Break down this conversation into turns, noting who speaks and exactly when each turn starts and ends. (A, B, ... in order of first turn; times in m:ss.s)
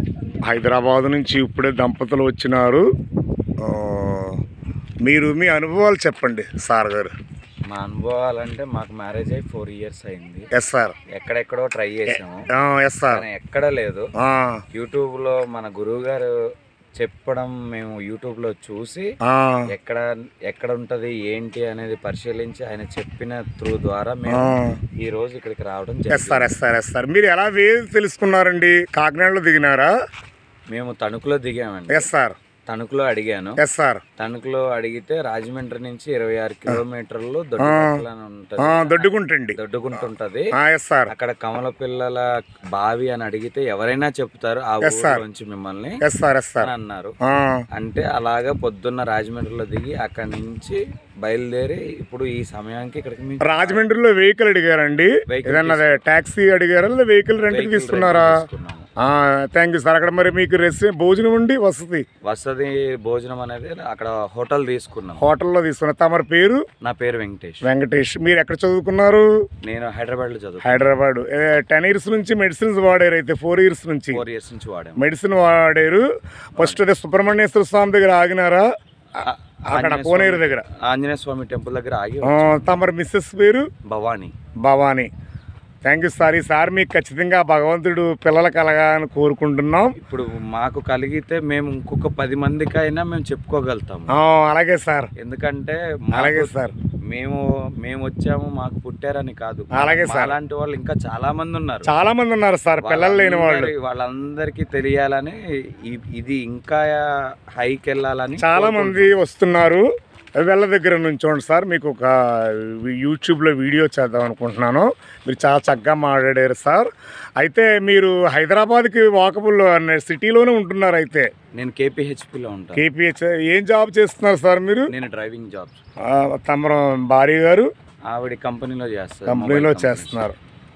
0:00.4-0:02.9 A
0:03.6-0:04.4 A
0:05.0-0:07.1 A
0:07.7-0:10.5 B
0:10.5-0:10.9 A
0:11.1-0:12.4 B
0:12.5-0:13.2 A
0:13.1-0:14.1 B
0:14.2-0:14.6 A
0:14.7-0:16.3 B
0:17.0-0:19.1 B
0:19.3-0:19.6 A
0:19.7-0:26.6 B
0:24.3-0:24.8 A
0:26.1-0:29.9 A
0:30.7-0:32.1 B
0:31.9-0:32.4 A
0:32.7-0:33.6 B
0:33.6-0:34.0 A
0:34.2-0:40.5 B
0:37.6-0:38.0 A
0:38.6-0:39.6 A
0:40.6-0:41.1 A
0:41.1-0:46.0 B
0:44.8-0:45.2 A
0:46.0-0:46.7 A
0:46.6-0:47.2 B
0:47.3-0:47.6 A
0:47.7-0:53.8 B
0:53.4-0:58.4 A
0:55.3-0:56.0 B
0:57.4-0:58.9 B
0:59.0-1:02.0 A
1:02.2-1:05.3 B
1:05.2-1:06.6 A
1:06.8-1:07.7 B
1:07.6-1:09.3 A
1:09.6-1:10.9 B
1:10.6-1:14.2 A
1:14.1-1:15.0 B
1:15.0-1:18.7 A
1:19.2-1:22.8 B
1:19.2-1:20.6 A
1:22.2-1:23.7 A
1:23.9-1:24.3 B
1:24.6-1:25.1 A
1:25.8-1:30.0 A
1:30.0-1:34.1 B
1:34.2-1:35.1 A
1:35.2-1:36.5 B
1:36.1-1:36.7 A
1:37.1-1:41.9 B
1:39.8-1:40.4 A
1:41.9-1:43.7 A
1:42.8-1:49.1 B
1:48.4-1:49.9 A
1:50.4-1:56.9 A
1:57.4-2:01.3 A
2:01.6-2:02.8 B
2:02.8-2:04.9 A
2:04.9-2:05.8 B
2:06.1-2:07.7 A
2:08.1-2:10.2 B
2:09.3-2:10.4 A